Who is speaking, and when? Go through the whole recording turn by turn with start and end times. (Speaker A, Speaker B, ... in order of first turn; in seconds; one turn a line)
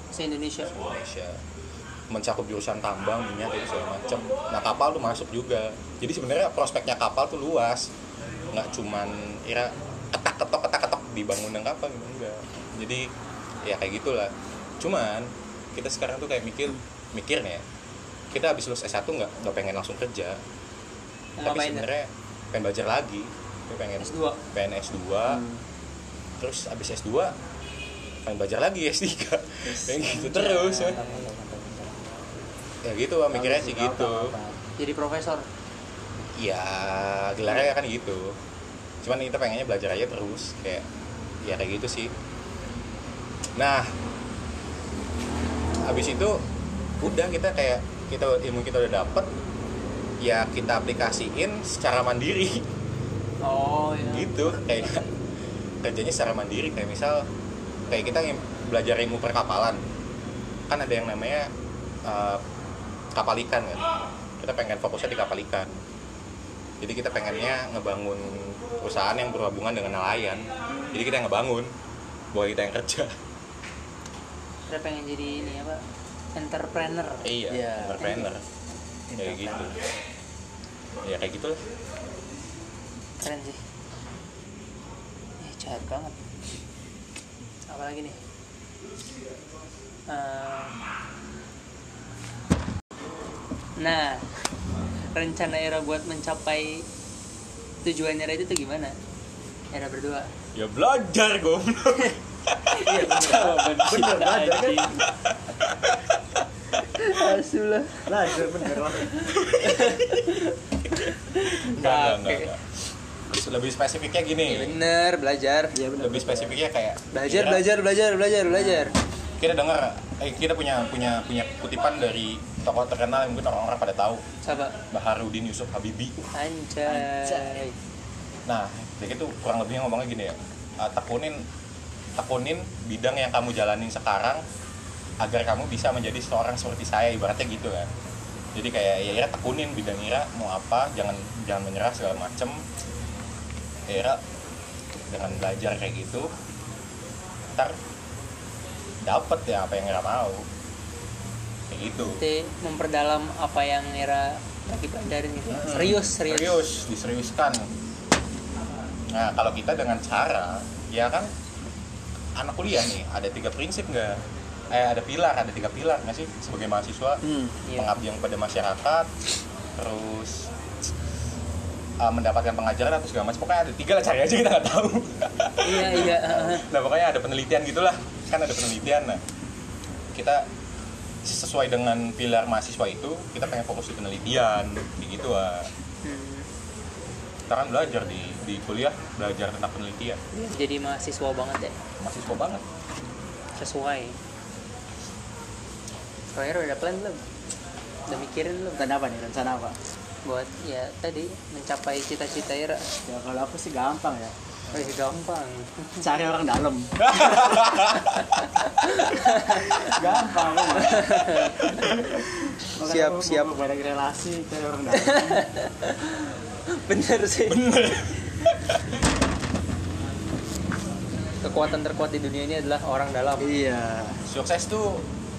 Speaker A: 0.1-0.7
Speaker B: 0.6-1.4
Speaker B: 2.1-7.9
Speaker B: 8.5-13.1
Speaker B: 13.6-17.6
Speaker B: 18.3-20.4
Speaker A: 21.4-21.9
Speaker B: 21.4-25.4
Speaker A: 24.0-24.4
Speaker C: 25.3-25.6
Speaker B: 26.4-27.3
Speaker B: 28.3-31.0
Speaker C: 29.6-32.0
Speaker A: 30.1-31.2
Speaker B: 32.9-34.3
Speaker C: 33.3-34.6
Speaker A: 34.8-35.5
Speaker B: 36.4-38.4
Speaker B: 39.0-40.9
Speaker B: 41.4-42.1
Speaker B: 43.6-43.9
Speaker B: 45.9-46.5
Speaker B: 47.0-49.3
Speaker B: 50.2-52.7
Speaker A: 53.4-55.0
Speaker B: 54.0-55.0
Speaker B: 55.8-57.3
Speaker B: 57.9-59.8
Speaker B: 60.7-61.5
Speaker B: 62.0-62.4
Speaker B: 63.1-65.8
Speaker B: 66.8-71.7
Speaker C: 70.7-71.1
Speaker B: 72.3-73.1
Speaker A: 74.7-75.8
Speaker A: 76.3-77.2
Speaker B: 77.2-78.5
Speaker C: 77.5-78.2
Speaker A: 78.0-78.3
Speaker C: 79.1-79.8
Speaker B: 79.2-79.8
Speaker B: 81.0-81.6
Speaker A: 83.2-83.6
Speaker A: 85.4-86.2
Speaker A: 87.7-88.2
Speaker A: 90.1-90.8
Speaker A: 93.8-94.3
Speaker A: 95.1-96.9
Speaker A: 97.8-99.0
Speaker A: 99.7-100.3
Speaker B: 100.5-102.9
Speaker A: 102.7-105.1
Speaker C: 102.8-104.9
Speaker B: 105.3-106.4
Speaker A: 106.8-108.1
Speaker C: 108.1-109.1
Speaker A: 108.7-112.5
Speaker B: 109.3-110.3
Speaker B: 110.9-112.6
Speaker B: 113.3-114.8
Speaker A: 114.4-115.8
Speaker C: 115.7-116.6
Speaker B: 116.0-117.7
Speaker A: 117.1-119.0
Speaker C: 118.5-118.9
Speaker B: 119.4-124.2
Speaker A: 124.4-124.8
Speaker B: 124.9-126.2
Speaker A: 126.2-127.8
Speaker C: 126.9-127.6
Speaker B: 128.5-131.4
Speaker B: 132.2-134.4
Speaker B: 135.2-137.9
Speaker B: 138.6-142.6
Speaker B: 143.9-144.2
Speaker B: 145.1-146.3
Speaker B: 149.0-150.4
Speaker B: 151.7-152.2
Speaker A: 152.0-156.6
Speaker B: 155.5-157.7
Speaker B: 159.1-161.3
Speaker B: 162.4-164.2
Speaker B: 164.7-169.1
Speaker C: 167.2-167.6
Speaker A: 167.7-167.9
Speaker B: 169.8-170.5
Speaker B: 172.0-179.2
Speaker A: 175.6-176.7
Speaker B: 180.1-180.5
Speaker B: 181.2-185.7
Speaker A: 186.0-186.5
Speaker B: 187.5-190.2
Speaker A: 190.3-191.8
Speaker B: 192.0-192.6
Speaker A: 193.6-194.2
Speaker A: 196.3-197.2
Speaker A: 198.1-198.9
Speaker C: 198.8-199.8
Speaker A: 200.2-202.9
Speaker C: 203.1-204.8
Speaker A: 204.7-206.1
Speaker C: 206.0-207.7
Speaker B: 207.0-208.2
Speaker A: 208.0-210.0
Speaker C: 209.7-211.2
Speaker A: 210.8-211.9
Speaker B: 211.7-212.3
Speaker C: 212.0-215.4
Speaker A: 212.8-213.5
Speaker A: 214.9-217.6
Speaker B: 217.4-218.8
Speaker A: 221.4-223.5
Speaker C: 223.4-224.2
Speaker B: 224.3-225.1